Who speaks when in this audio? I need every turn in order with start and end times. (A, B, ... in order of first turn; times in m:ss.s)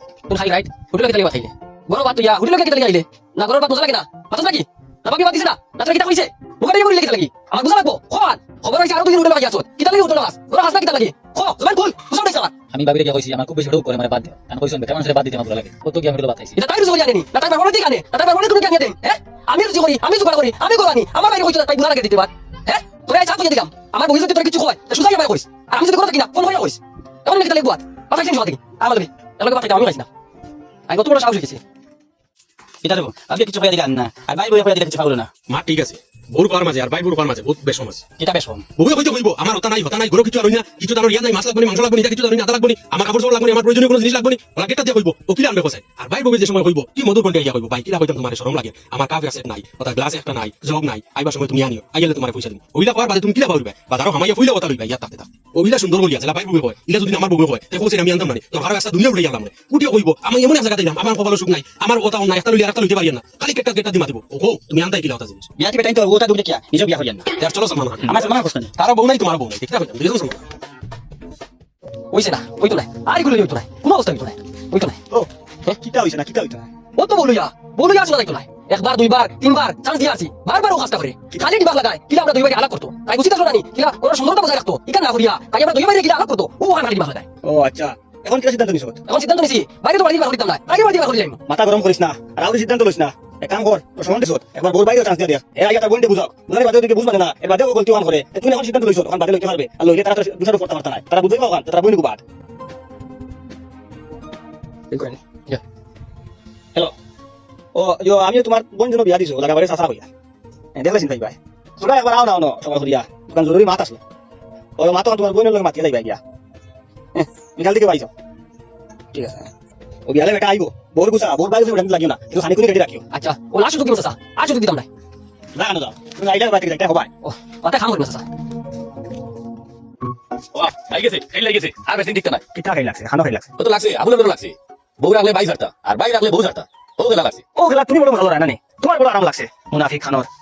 0:00.3-0:12.6 A
0:12.7-0:16.5 B
0:16.5-0:30.1 A
0:30.9-0:31.6 A
0:32.8-0:35.3 B
0:35.5-0:38.0 C
0:38.2-0:38.6 B
0:38.8-1:05.5 C
1:05.6-1:07.3 B
1:07.3-1:10.4 C
1:08.0-1:08.7 B
1:12.1-1:15.0 A
1:15.1-1:16.7 D
1:17.0-1:27.2 A
1:27.4-1:29.0 D
1:29.0-1:31.4 A
1:31.5-1:42.2 D
1:44.9-1:45.6 A
1:47.7-1:50.1 D
1:50.7-1:54.0 D
1:54.8-1:56.2 D
1:57.1-1:58.1 D
1:59.1-1:59.5 D
2:00.0-2:03.0 D
2:03.1-2:04.9 A
2:05.5-2:07.1 D
2:07.2-2:08.2 A
2:10.6-2:12.4 E
2:12.5-2:13.5 D
2:13.6-2:17.4 E
2:17.5-2:20.3 D